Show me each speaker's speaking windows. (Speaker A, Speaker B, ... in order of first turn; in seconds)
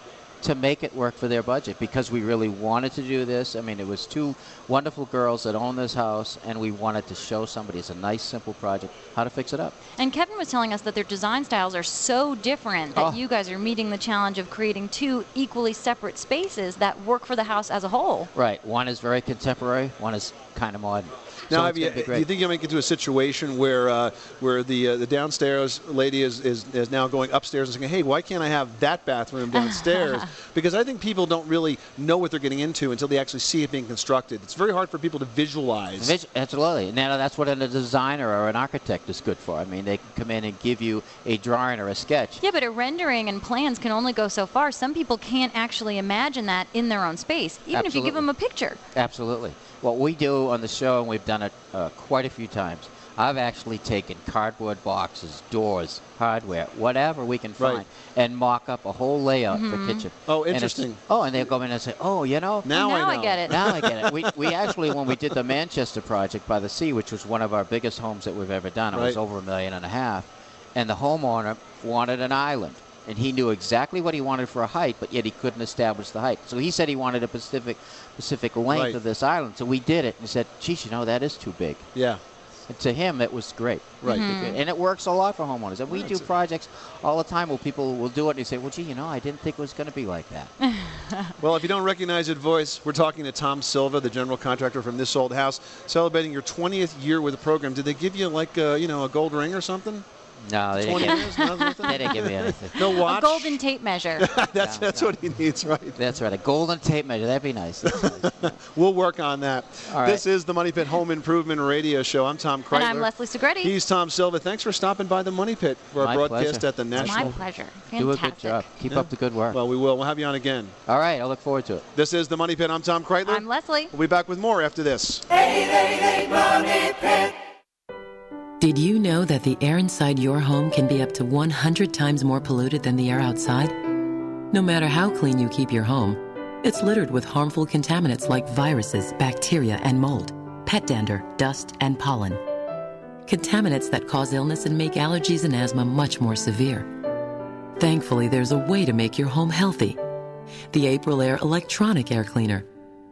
Speaker A: 0.4-9.7, 18.3-22.2, 36.0-42.4, 47.7-48.2, 48.9-62.7, 63.5-81.9, 82.7-90.5, 100.5-102.8, 104.6-105.2, 106.0-108.5, 109.9-110.2, 116.0-119.6, 120.9-121.8
Speaker B: 10.0-18.3, 29.5-30.3, 42.4-48.8, 59.5-60.0, 62.7-63.6, 84.0-84.6, 90.6-91.3, 101.1-102.0, 102.8-104.3, 112.7-113.7, 117.0-118.7, 123.2-123.9
Speaker C: 21.5-36.1, 57.6-57.8, 60.3-61.0, 62.6-65.2, 68.9-69.2, 78.7-79.0, 81.9-82.2, 84.0-84.3, 85.9-86.3, 91.4-100.0, 100.7-103.6, 104.2-106.0, 107.8-113.1, 113.6-117.4, 118.9-120.7, 121.9-125.2
Speaker D: 128.6-133.9, 134.5-142.4, 143.2-146.9, 147.8-150.0, 150.7-152.7